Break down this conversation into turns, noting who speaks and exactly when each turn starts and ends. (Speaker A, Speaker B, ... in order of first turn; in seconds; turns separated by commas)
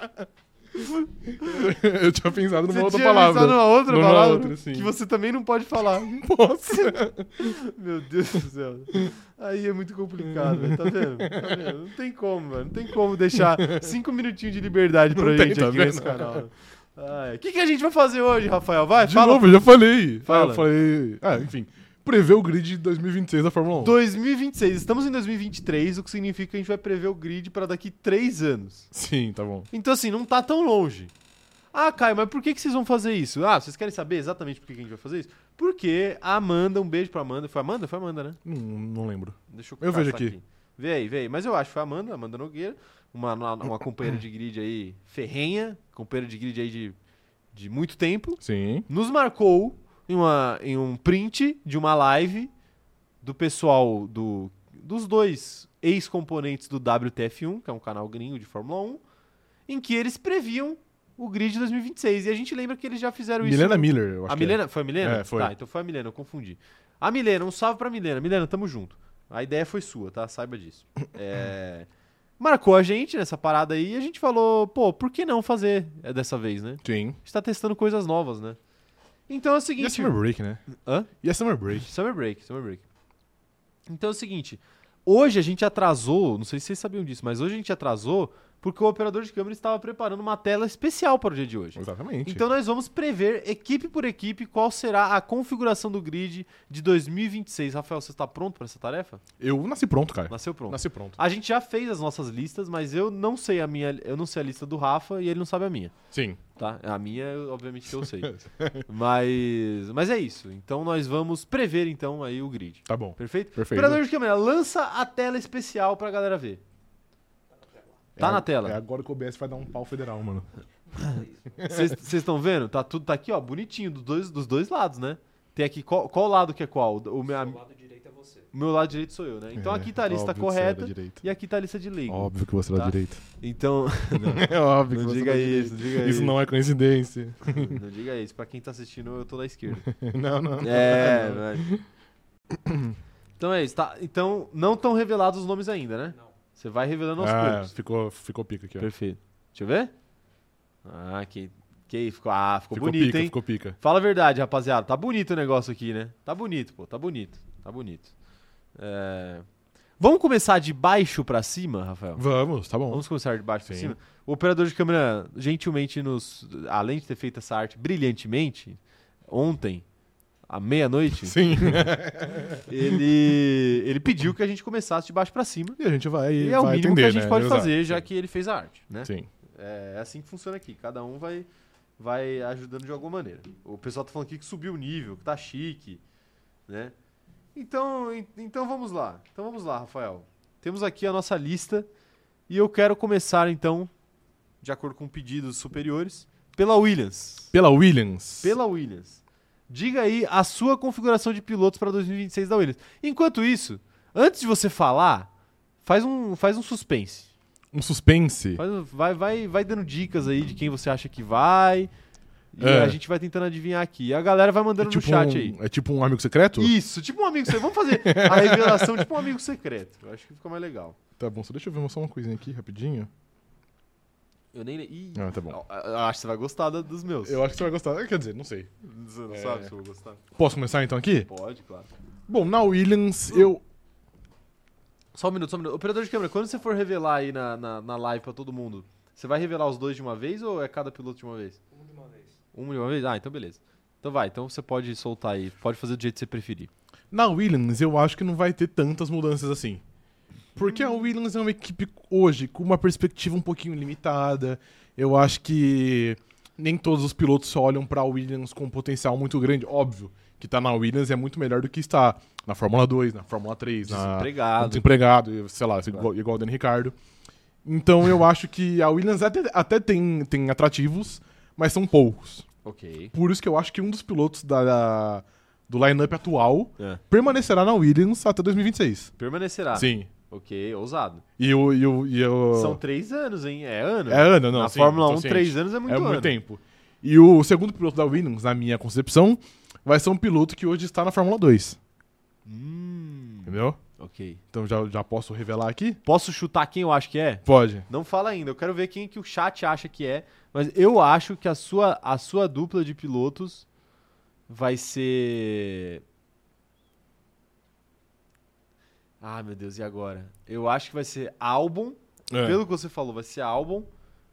Speaker A: 0.8-1.7, Speaker B: 1.4-4.9, Speaker A: 2.7-19.6, Speaker B: 5.9-7.5, Speaker B: 10.3-11.7, Speaker B: 13.3-13.9, Speaker B: 15.1-16.4, Speaker B: 19.0-23.9, Speaker A: 20.2-20.6, Speaker A: 23.8-28.9, Speaker B: 28.9-29.7, Speaker A: 29.7-31.1, Speaker A: 31.7-38.4, Speaker B: 38.4-40.4, Speaker A: 39.5-47.0, Speaker A: 47.5-52.5, Speaker B: 48.4-48.9, Speaker A: 53.2-59.0, Speaker A: 59.7-71.9, Speaker B: 63.4-65.5, Speaker A: 72.4-78.6, Speaker B: 76.8-77.2, Speaker A: 79.3-80.2, Speaker B: 79.8-80.6, Speaker A: 80.7-81.1, Speaker B: 81.2-81.9, Speaker A: 81.7-82.8, Speaker A: 83.9-99.2, Speaker B: 91.8-92.4, Speaker B: 99.4-101.2, Speaker A: 100.3-105.9, Speaker B: 106.1-106.4, Speaker A: 106.6-116.6, Speaker B: 108.2-108.8, Speaker B: 112.9-114.0, Speaker C: 117.5-118.0, Speaker B: 118.2-120.5, Speaker A: 118.2-118.8, Speaker C: 120.9-121.5, Speaker B: 121.6-122.0, Speaker A: 121.6-127.6, Speaker C: 127.3-128.5, Speaker A: 128.5-136.4, Speaker B: 129.6-131.2, Speaker B: 132.1-133.2, Speaker B: 134.2-137.8, Speaker A: 137.4-139.8, Speaker B: 139.8-141.8, Speaker A: 140.6-141.7, Speaker B: 142.5-143.0, Speaker A: 143.4-147.7, Speaker B: 147.2-148.9, Speaker A: 148.8-149.9, Speaker A: 150.8-158.1, Speaker B: 152.7-153.8, Speaker A: 158.8-159.4, Speaker A: 160.0-162.2, Speaker B: 162.2-163.0, Speaker A: 162.9-169.8, Speaker B: 163.7-163.9, Speaker A: 170.5-171.9, Speaker B: 171.2-173.0, Speaker A: 172.7-175.8, Speaker B: 175.8-178.0, Speaker A: 176.4-186.0, Speaker A: 186.7-186.9, Speaker A: 187.5-191.9, Speaker A: 192.5-193.9, Speaker A: 194.6-197.5, Speaker B: 197.5-198.6, Speaker A: 198.4-205.3, Speaker A: 205.8-207.3, Speaker B: 207.7-208.6, Speaker A: 208.6-211.9, Speaker A: 212.5-215.6, Speaker B: 212.6-213.0, Speaker B: 214.8-216.7, Speaker A: 216.6-221.0, Speaker B: 217.5-219.1, Speaker B: 221.2-223.1, Speaker A: 224.5-227.4, Speaker B: 225.2-225.6, Speaker B: 227.2-228.7, Speaker A: 228.8-230.2, Speaker B: 229.3-229.7, Speaker B: 230.3-231.3, Speaker A: 231.3-231.9, Speaker B: 232.3-233.6, Speaker A: 235.1-241.6, Speaker C: 241.7-242.4, Speaker A: 242.5-246.7, Speaker B: 247.1-249.8, Speaker B: 250.6-266.9, Speaker A: 263.8-264.9, Speaker B: 267.6-272.4, Speaker A: 272.6-273.1, Speaker B: 273.1-279.1, Speaker A: 279.2-281.2, Speaker B: 279.7-280.1, Speaker B: 281.4-282.8, Speaker A: 282.5-286.3, Speaker B: 284.1-291.8, Speaker A: 292.4-294.4, Speaker B: 293.4-293.8, Speaker B: 294.5-296.0, Speaker A: 296.0-303.6, Speaker B: 297.4-297.8, Speaker A: 304.5-306.0, Speaker A: 309.2-313.9, Speaker B: 312.3-312.6